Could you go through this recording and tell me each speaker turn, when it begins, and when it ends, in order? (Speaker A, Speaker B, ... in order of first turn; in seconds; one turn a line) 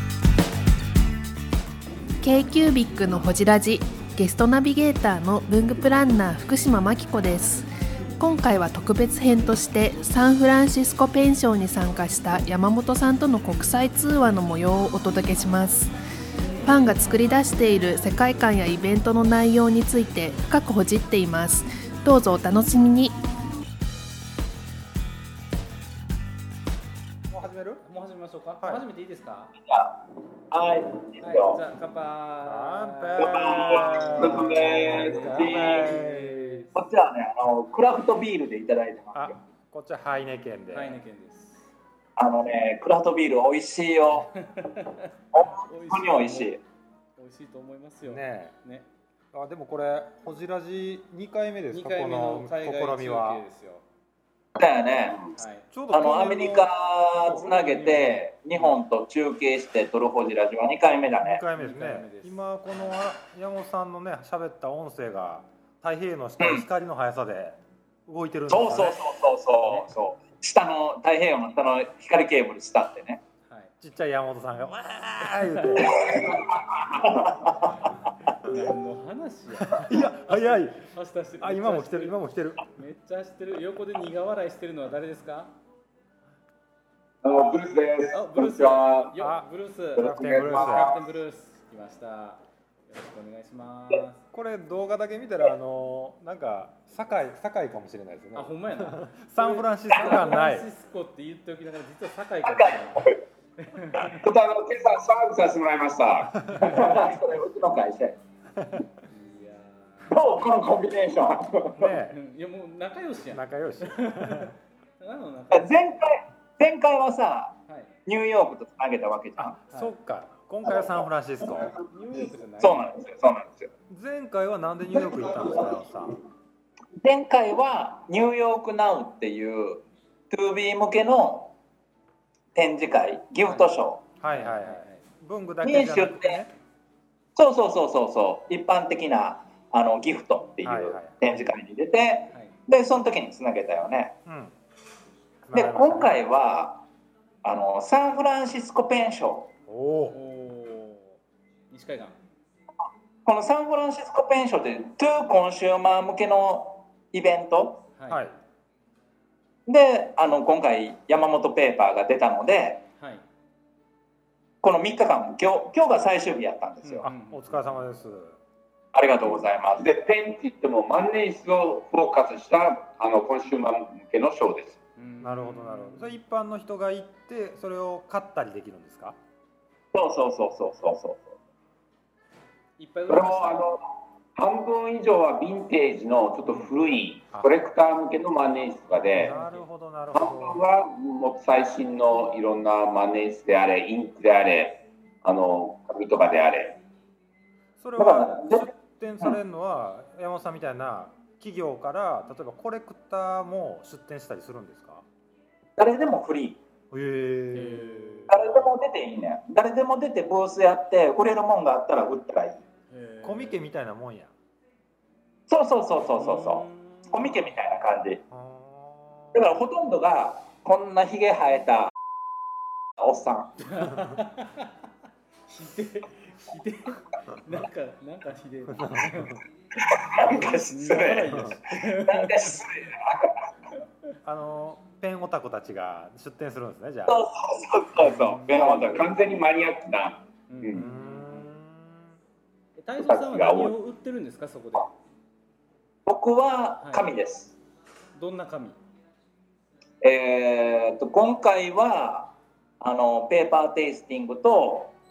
Speaker A: 2.2-7.7
Speaker A: 8.2-15.9
Speaker A: 16.6-23.1
Speaker B: 27.3-27.8
Speaker C: 27.8-29.5
Speaker D: 29.7-31.6
Speaker C: 31.2-36.7
Speaker B: 32.4-36.6
Speaker D: 33.2-34.6
Speaker E: 34.2-35.2
Speaker D: 35.2-36.0
Speaker D: 36.7-39.3
Speaker B: 39.1-41.0
Speaker C: 40.7-41.6
Speaker D: 42.1-44.3
Speaker C: 44.5-46.6
Speaker D: 45.3-46.6
Speaker C: 47.2-48.9
Speaker B: 48.0-48.5
Speaker B: 49.3-53.4
Speaker C: 51.7-53.8
Speaker D: 54.5-55.2
Speaker C: 55.4-55.7
Speaker B: 55.7-56.7
Speaker D: 55.9-61.4
Speaker C: 57.2-58.8
Speaker B: 61.2-69.0
Speaker C: 61.5-62.4
Speaker D: 68.5-73.2
Speaker C: 69.6-69.9
Speaker C: 73.4-73.7
Speaker B: 73.8-76.4
Speaker C: 75.4-76.4
Speaker D: 75.9-77.8
Speaker C: 78.4-85.5
Speaker B: 79.6-82.6
Speaker E: 87.2-89.1
Speaker C: 88.1-94.2
Speaker B: 89.2-91.0
Speaker E: 90.0-91.1
Speaker B: 94.3-100.7
Speaker C: 98.3-104.2
Speaker D: 102.4-103.2
Speaker E: 104.2-106.3
Speaker B: 106.4-106.8
Speaker D: 106.6-108.2
Speaker B: 108.6-108.9
Speaker C: 109.1-110.1
Speaker D: 110.1-112.0
Speaker B: 111.7-112.2
Speaker C: 112.1-115.8
Speaker B: 113.2-114.5
Speaker D: 115.5-119.6
Speaker C: 117.7-118.0
Speaker B: 119.4-121.7
Speaker C: 119.7-119.9
Speaker C: 121.9-122.9
Speaker D: 122.6-123.7
Speaker B: 123.9-126.2
Speaker D: 127.0-131.5
Speaker D: 132.5-134.0
Speaker C: 133.4-133.7
Speaker B: 134.2-136.5
Speaker C: 134.3-135.0
Speaker D: 135.6-136.4
Speaker D: 137.3-144.2
Speaker B: 140.6-141.2
Speaker B: 144.2-144.6
Speaker B: 145.4-146.2
Speaker D: 145.5-146.8
Speaker D: 147.4-149.5
Speaker B: 149.7-150.2
Speaker C: 150.1-151.2
Speaker C: 151.7-152.2
Speaker D: 153.2-157.8
Speaker C: 157.9-158.2
Speaker B: 158.1-158.4
Speaker D: 159.7-162.8
Speaker C: 163.0-163.2
Speaker D: 164.6-167.0
Speaker C: 166.8-167.7
Speaker B: 167.0-168.4
Speaker D: 168.9-169.9
Speaker E: 169.8-174.8
Speaker C: 175.0-176.1
Speaker B: 175.2-179.2
Speaker D: 179.9-181.3
Speaker C: 182.8-183.7
Speaker E: 183.1-183.8
Speaker E: 184.3-189.3
Speaker B: 187.3-187.6
Speaker B: 189.1-190.6
Speaker C: 189.1-189.6
Speaker E: 190.1-196.8
Speaker B: 197.8-205.0
Speaker D: 198.0-198.7
Speaker D: 205.8-206.6
Speaker B: 206.9-208.5
Speaker C: 207.5-208.4
Speaker D: 208.3-212.6
Speaker C: 212.9-213.6
Speaker B: 213.2-214.3
Speaker D: 215.5-218.2
Speaker C: 216.1-217.4
Speaker B: 218.3-219.6
Speaker D: 219.3-221.9
Speaker D: 223.0-223.5
Speaker C: 223.6-224.7
Speaker C: 225.5-229.4
Speaker B: 228.8-229.3
Speaker D: 229.9-231.4
Speaker C: 230.7-232.6
Speaker D: 232.0-233.3
Speaker B: 234.2-237.2
Speaker D: 237.1-239.1
Speaker C: 237.9-239.0
Speaker E: 238.5-240.9
Speaker C: 240.5-241.4
Speaker B: 240.7-242.2
Speaker C: 242.8-244.9
Speaker E: 243.0-243.7
Speaker D: 246.1-247.6
Speaker C: 246.8-247.1
Speaker C: 248.2-248.8
Speaker D: 250.0-254.9